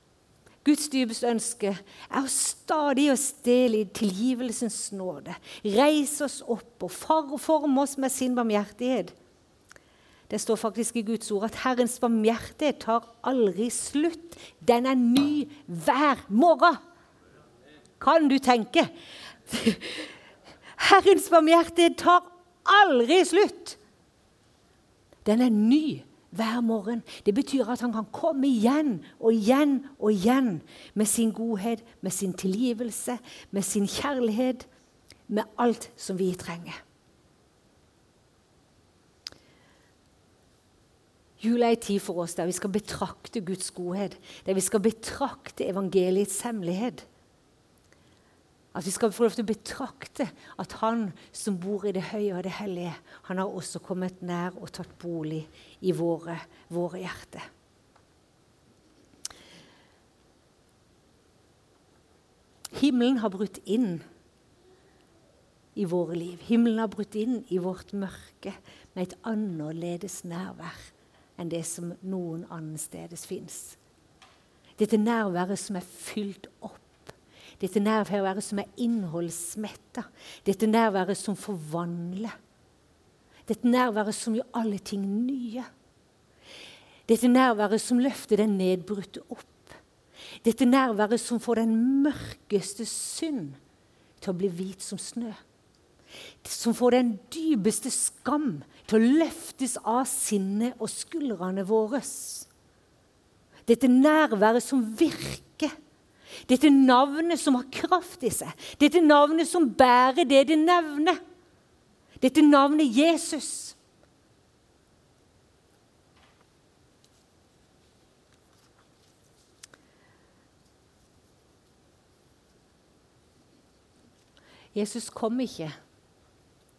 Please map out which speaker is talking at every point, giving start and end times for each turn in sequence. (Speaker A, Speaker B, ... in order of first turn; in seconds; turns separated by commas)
Speaker A: 0.6-9.1, Speaker A: 10.3-16.8, Speaker A: 18.0-18.9, Speaker A: 19.5-20.1, Speaker A: 20.8-23.8, Speaker A: 25.2-34.7, Speaker A: 35.3-36.8, Speaker A: 41.4-47.1, Speaker A: 48.7-57.5, Speaker A: 62.7-64.0, Speaker A: 65.8-73.8, Speaker A: 74.8-82.3, Speaker A: 83.5-85.7, Speaker A: 87.1-89.8, Speaker A: 90.4-93.6, Speaker A: 94.2-95.4, Speaker A: 96.4-102.5, Speaker A: 103.7-105.7, Speaker A: 106.5-111.2, Speaker A: 112.2-113.8, Speaker A: 124.7-125.7